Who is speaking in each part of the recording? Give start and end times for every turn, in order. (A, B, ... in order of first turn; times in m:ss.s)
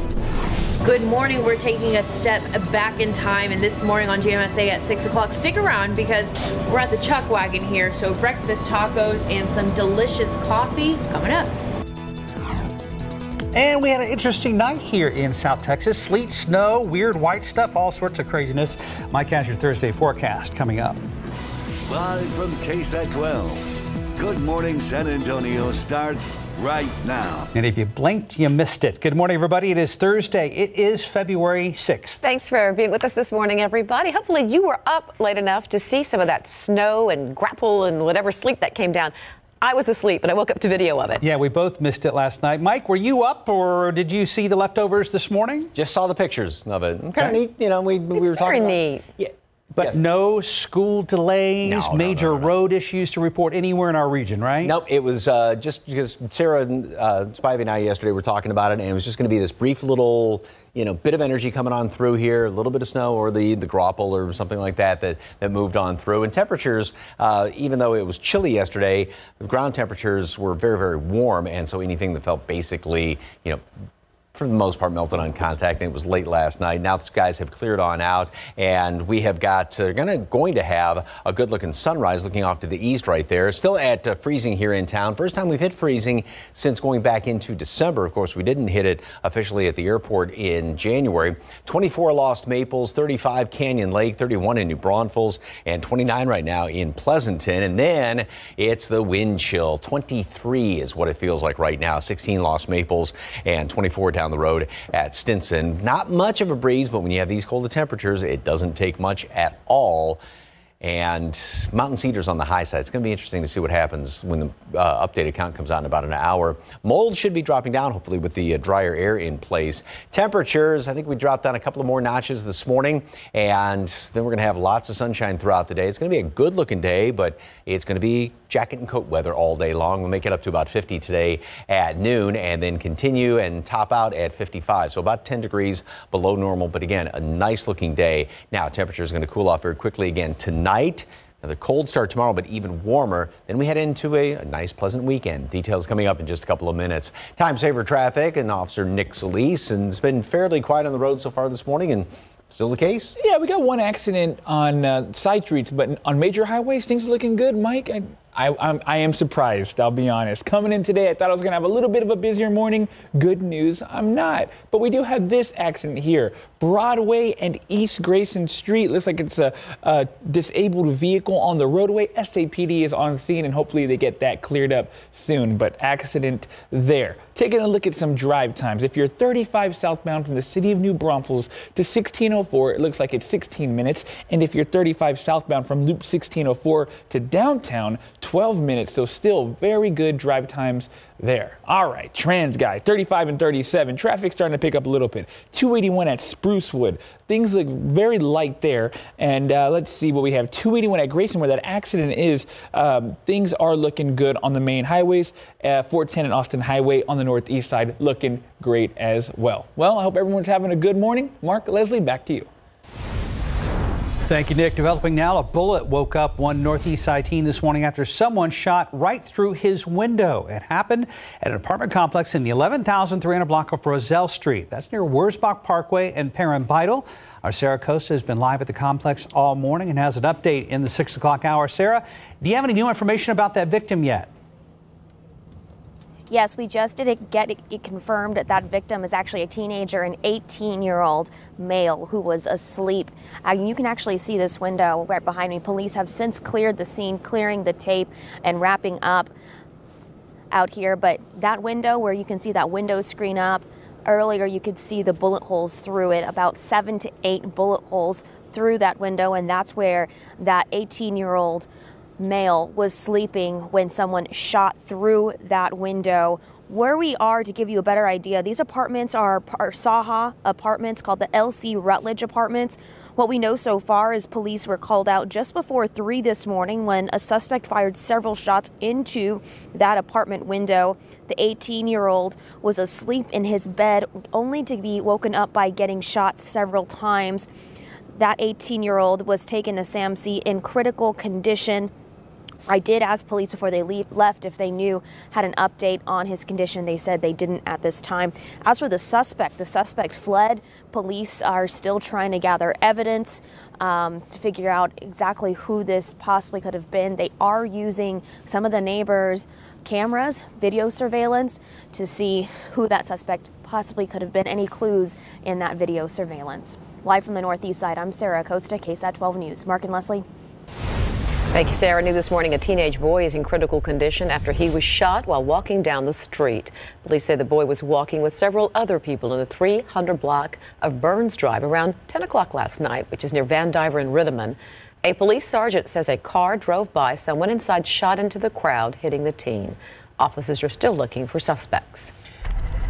0:00.8-0:11.6 A
0:13.5-0:21.0 B
0:21.9-0:23.6 C
0:24.2-0:27.5 C
0:27.5-0:32.2 B
0:32.3-0:41.2 D
0:41.2-0:45.7 B
0:45.7-0:50.0 E
0:48.2-0:49.0 D
0:49.7-0:54.7 B
0:51.6-0:52.5 E
0:54.6-1:13.6 E
1:14.3-1:50.2 E
1:50.8-2:33.1 E
2:33.2-3:32.5 F
3:34.2-3:54.3 B
3:56.3-4:09.3 G
4:10.5-4:21.7 G
4:22.2-4:47.5 G
4:48.1-4:51.9 G
4:52.7-5:20.2 G
5:21.5-5:42.1 D